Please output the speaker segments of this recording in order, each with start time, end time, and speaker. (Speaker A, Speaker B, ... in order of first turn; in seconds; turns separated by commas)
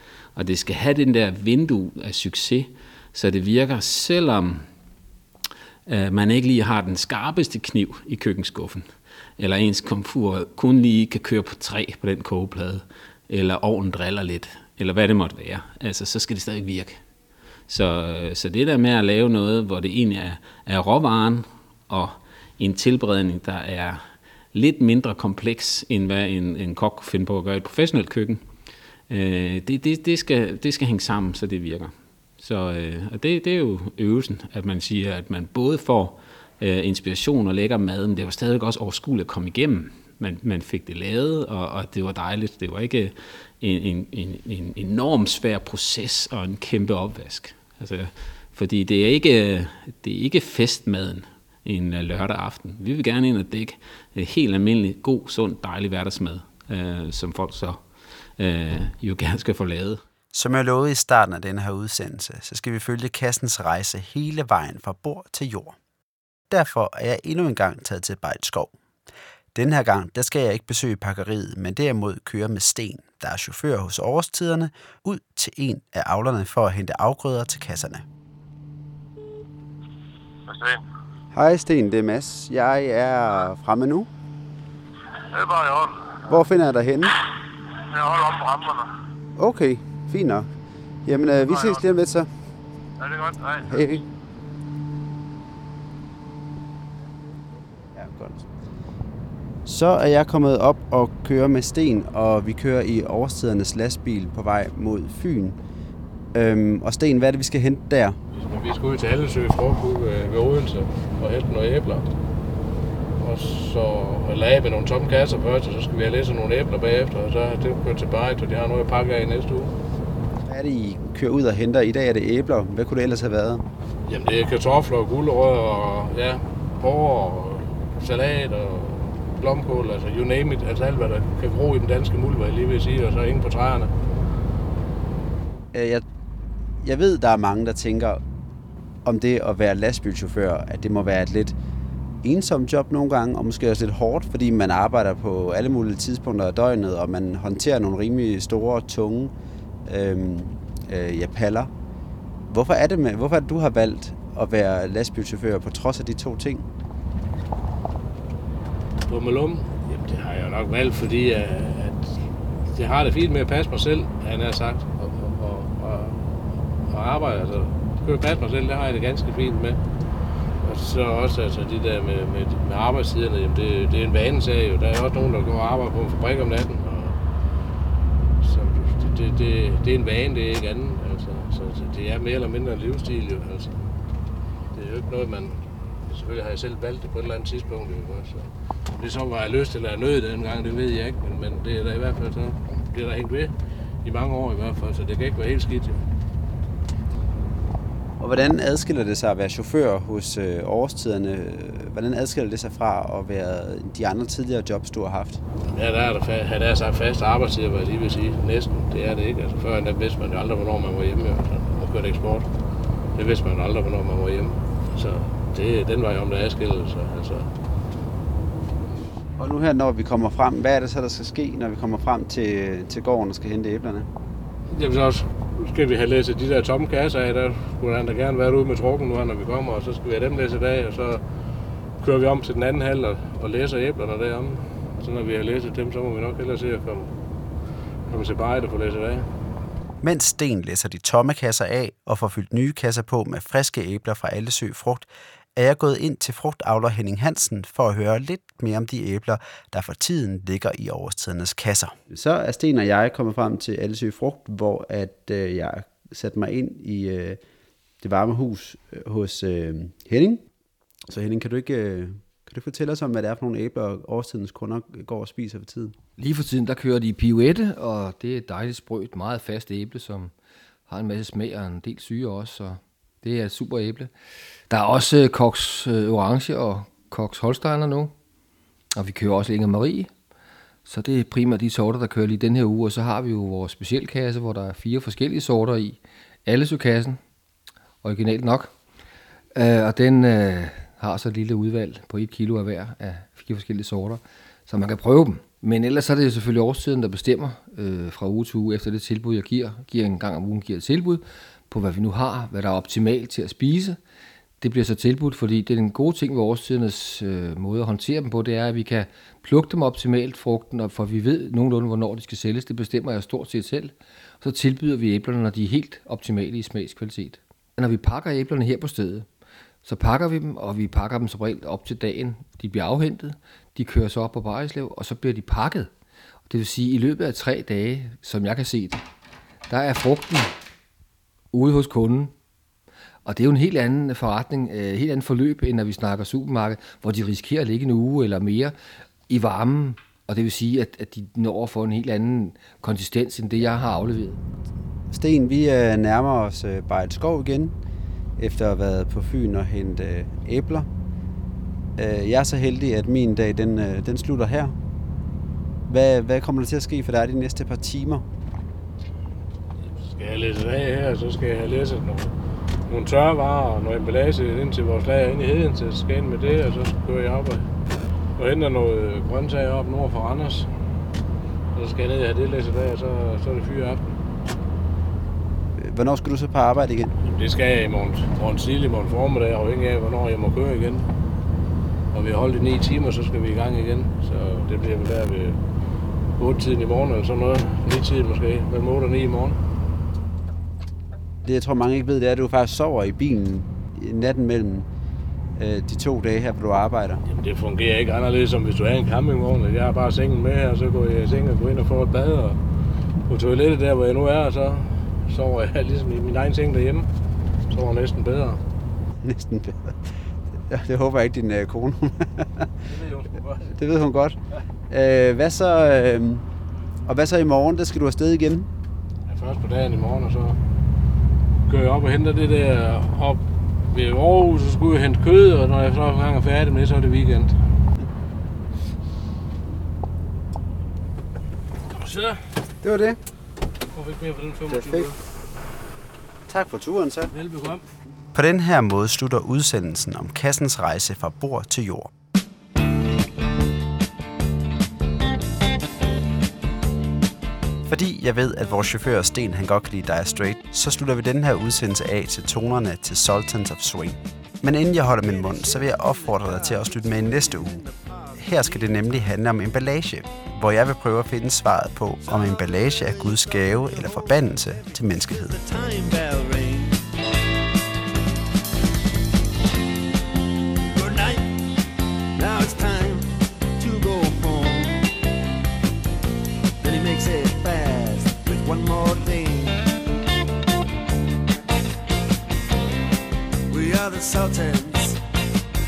Speaker A: 0.3-4.7, Speaker A: 5.9-17.0, Speaker A: 17.7-24.0, Speaker A: 24.5-28.4, Speaker A: 29.1-57.8, Speaker A: 58.4-60.0, Speaker B: 60.3-65.8, Speaker B: 66.5-68.7, Speaker B: 69.5-78.0, Speaker C: 80.5-80.8, Speaker B: 81.3-84.1, Speaker C: 85.3-86.1, Speaker B: 86.3-87.1, Speaker C: 87.9-88.9, Speaker B: 89.4-90.5, Speaker B: 91.0-92.3, Speaker C: 91.5-91.8, Speaker C: 93.0-93.9, Speaker B: 93.7-94.0, Speaker B: 97.9-98.4, Speaker B: 99.7-105.6, Speaker B: 106.3-108.2, Speaker D: 108.3-112.0, Speaker D: 113.2-119.7, Speaker B: 120.5-123.6, Speaker D: 124.0-133.9, Speaker B: 135.7-136.0, Speaker B: 136.8-138.2, Speaker B: 139.0-141.5, Speaker B: 142.2-149.3, Speaker B: 149.8-151.7, Speaker B: 152.5-156.7, Speaker D: 159.1-162.1, Speaker D: 162.7-166.3, Speaker D: 166.9-169.8, Speaker D: 170.6-177.2, Speaker D: 178.4-183.8, Speaker D: 184.7-193.5, Speaker D: 194.0-196.0, Speaker B: 198.2-205.4, Speaker D: 205.7-212.5, Speaker D: 213.1-217.4, Speaker B: 219.4-224.1, Speaker D: 224.7-231.2, Speaker D: 232.0-237.1, Speaker D: 238.1-239.2, Speaker B: 240.0-257.4, Speaker B: 258.0-260.4, Speaker B: 261.1-265.9, Speaker E: 266.2-270.3, Speaker E: 270.9-274.1, Speaker E: 274.7-278.1, Speaker E: 278.9-280.1, Speaker E: 280.9-287.2, Speaker E: 288.0-288.7, Speaker E: 289.5-304.0, Speaker E: 304.6-319.3, Speaker E: 319.8-325.9, Speaker E: 326.5-329.0, Speaker E: 329.7-330.5, Speaker E: 331.5-332.3, Speaker E: 333.2-338.7, Speaker E: 339.3-344.4, Speaker B: 345.1-347.7, Speaker B: 348.4-350.9, Speaker B: 352.0-354.8, Speaker B: 355.9-358.2, Speaker D: 359.8-362.3, Speaker D: 362.9-367.6, Speaker D: 368.4-370.7, Speaker D: 371.7-374.1, Speaker B: 375.8-377.1, Speaker D: 377.2-381.1, Speaker D: 382.1-385.6, Speaker D: 386.4-389.6, Speaker B: 391.4-394.9, Speaker B: 395.6-397.2, Speaker D: 397.2-402.6, Speaker D: 403.3-407.1, Speaker D: 407.7-408.6, Speaker B: 409.2-410.0, Speaker B: 410.7-412.7, Speaker D: 412.9-413.7, Speaker B: 413.7-414.4, Speaker B: 414.9-416.4, Speaker B: 417.1-418.7, Speaker D: 419.3-420.6, Speaker D: 421.7-427.5, Speaker D: 431.9-432.4, Speaker B: 432.8-433.2, Speaker D: 433.9-435.2, Speaker B: 434.7-435.1, Speaker B: 436.5-437.3, Speaker D: 437.3-437.8, Speaker B: 438.3-442.1, Speaker B: 447.9-457.8, Speaker F: 454.8-459.7, Speaker B: 458.4-465.6, Speaker F: 462.2-467.0, Speaker F: 470.8-471.6, Speaker F: 472.3-475.1, Speaker F: 476.8-479.8, Speaker F: 483.7-485.2